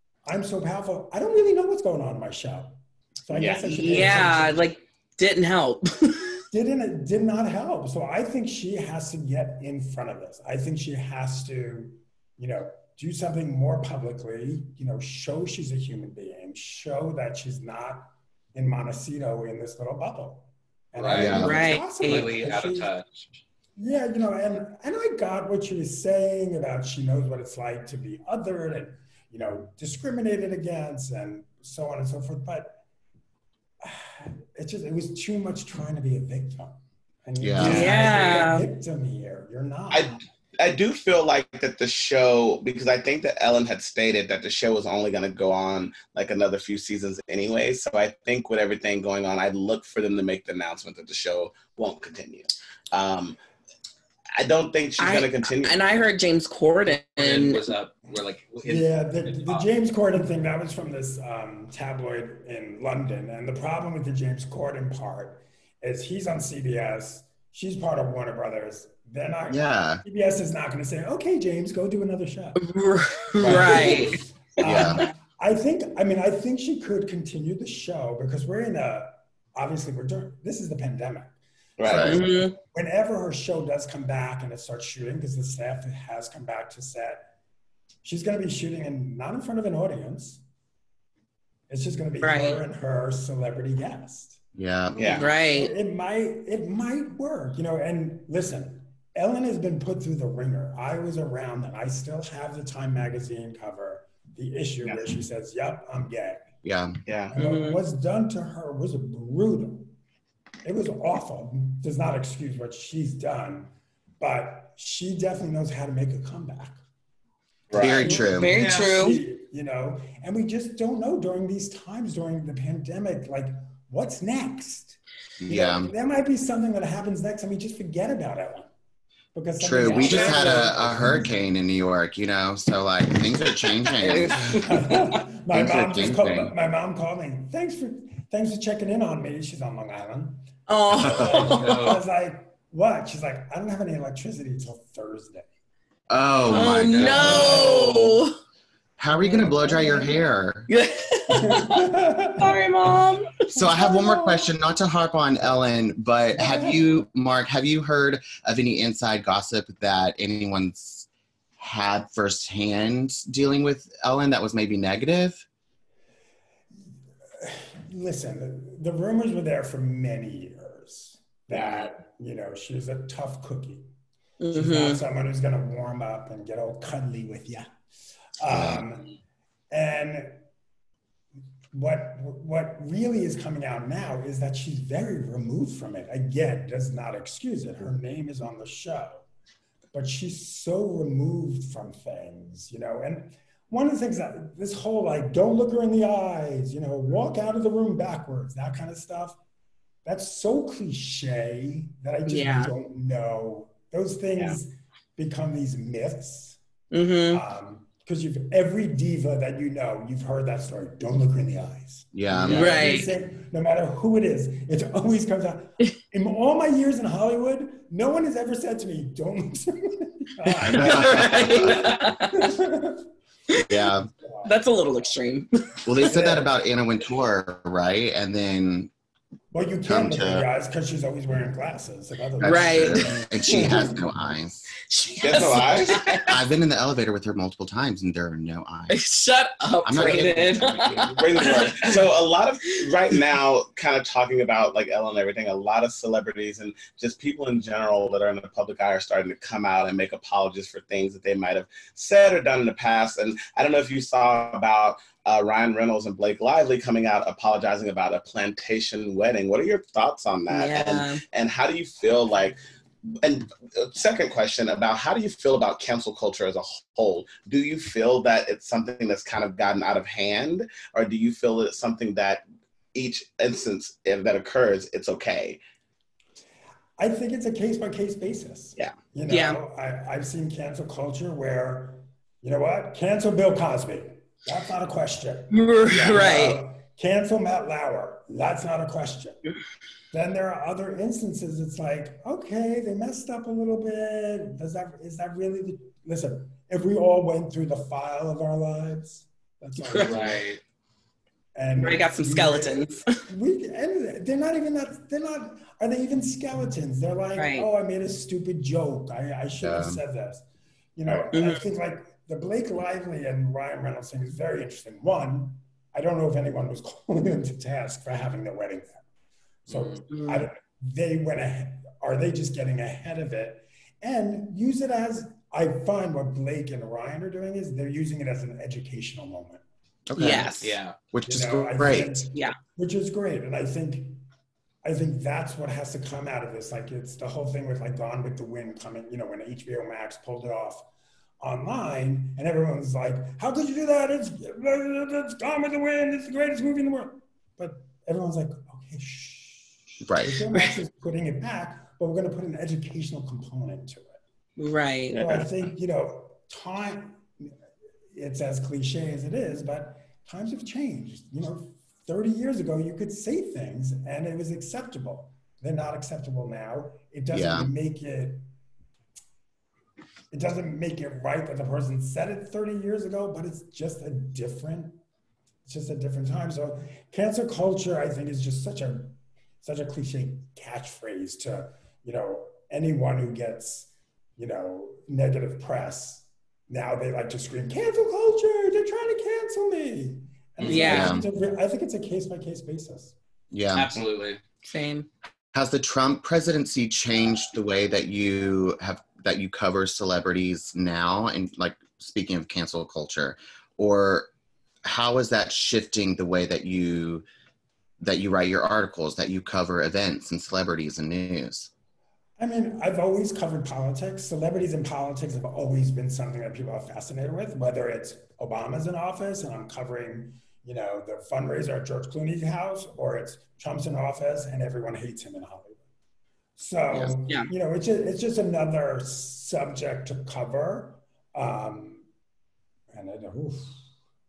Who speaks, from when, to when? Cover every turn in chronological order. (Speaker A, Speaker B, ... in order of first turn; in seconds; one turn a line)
Speaker A: 0.3-4.7
Speaker B: 3.3-3.6
Speaker C: 3.7-6.3
Speaker A: 6.5-22.9
Speaker D: 21.0-23.3
Speaker E: 21.1-21.7
Speaker C: 21.3-22.3
Speaker A: 23.8-32.8
Speaker A: 33.8-40.2
Speaker E: 37.4-38.1
Speaker C: 37.6-38.6
Speaker B: 39.9-53.4
Speaker B: 54.4-55.9
Speaker C: 55.0-57.6
Speaker D: 56.9-59.7
Speaker A: 58.6-72.7
Speaker E: 69.5-70.0
Speaker C: 72.6-75.1
Speaker A: 73.3-87.3
Speaker B: 73.4-74.1
Speaker E: 74.6-75.0
Speaker B: 81.8-82.2
Speaker E: 81.9-82.2
Speaker C: 82.0-82.6
Speaker A: 88.0-90.4
Speaker A: 91.7-94.4
Speaker C: 92.2-92.6
Speaker E: 94.6-95.1
Speaker B: 95.0-95.3
Speaker A: 95.0-106.5
Speaker C: 95.1-95.7
Speaker E: 106.6-107.0
Speaker B: 107.1-107.3
Speaker A: 107.3-109.9
Speaker C: 107.3-107.8
Speaker A: 110.7-116.8
Speaker B: 117.7-118.0
Speaker A: 117.7-128.7
Speaker E: 117.7-118.6
Speaker C: 118.0-119.2
Speaker E: 125.4-125.9
Speaker A: 129.3-131.3
Speaker E: 129.6-134.6
Speaker D: 129.8-130.6
Speaker C: 134.0-134.7
Speaker A: 134.3-145.5
Speaker E: 135.5-136.5
Speaker C: 140.7-141.9
Speaker E: 141.0-141.3
Speaker D: 141.4-142.0
Speaker E: 146.1-147.8
Speaker C: 146.5-148.4
Speaker E: 149.0-150.7
Speaker A: 149.2-150.2
Speaker C: 150.7-151.9
Speaker A: 151.3-152.7
Speaker C: 152.4-153.4
Speaker A: 153.5-154.5
Speaker E: 153.5-161.1
Speaker A: 156.4-156.9
Speaker E: 161.6-165.4
Speaker A: 167.4-173.9
Speaker C: 174.4-175.0
Speaker A: 174.5-177.7
Speaker A: 178.4-179.2
Speaker E: 178.6-178.8
Speaker A: 179.7-180.4
Speaker A: 181.7-189.3
Speaker A: 189.9-199.4
Speaker A: 200.1-206.6
Speaker C: 202.3-202.7
Speaker C: 206.9-207.4
Speaker A: 207.3-223.1
Speaker E: 212.1-212.9
Speaker C: 212.5-213.1
Speaker C: 220.7-222.4
Speaker E: 220.8-221.5
Speaker E: 223.7-224.1
Speaker A: 224.0-224.7
Speaker C: 224.4-225.6
Speaker E: 225.8-228.9
Speaker A: 226.0-226.5
Speaker A: 229.5-234.0
Speaker E: 229.8-230.5
Speaker E: 232.4-234.7
Speaker C: 232.4-233.7
Speaker C: 234.9-236.4
Speaker B: 235.2-236.0
Speaker E: 236.3-239.0
Speaker C: 238.9-242.0
Speaker E: 239.8-241.4
Speaker B: 241.1-262.6
Speaker C: 260.5-261.2
Speaker B: 263.2-275.6
Speaker A: 277.0-289.4
Speaker C: 279.3-279.6
Speaker C: 285.5-286.6
Speaker A: 290.1-300.6
Speaker C: 299.9-300.2
Speaker D: 299.9-300.6
Speaker A: 301.6-310.4
Speaker C: 301.8-303.1
Speaker C: 307.4-307.7
Speaker E: 309.6-310.0
Speaker A: 311.0-319.0
Speaker C: 311.3-311.7
Speaker A: 319.7-329.6
Speaker C: 320.1-320.5
Speaker E: 330.1-330.5
Speaker C: 330.2-330.8
Speaker D: 330.6-331.0
Speaker E: 331.1-332.1
Speaker A: 331.3-334.2
Speaker A: 334.8-340.9
Speaker A: 341.4-354.2
Speaker E: 350.0-350.5
Speaker C: 354.6-355.2
Speaker A: 355.2-357.5
Speaker B: 355.2-355.4
Speaker A: 358.1-368.5
Speaker E: 367.3-367.7
Speaker A: 370.3-375.0
Speaker A: 375.7-393.1
Speaker E: 390.6-391.3
Speaker C: 390.6-391.2
Speaker E: 393.5-393.9
Speaker D: 393.7-394.4
Speaker C: 394.6-395.1
Speaker E: 395.5-404.3
Speaker E: 404.9-407.2
Speaker E: 408.0-411.7
Speaker A: 412.4-425.8
Speaker A: 426.6-432.0
Speaker A: 432.9-433.8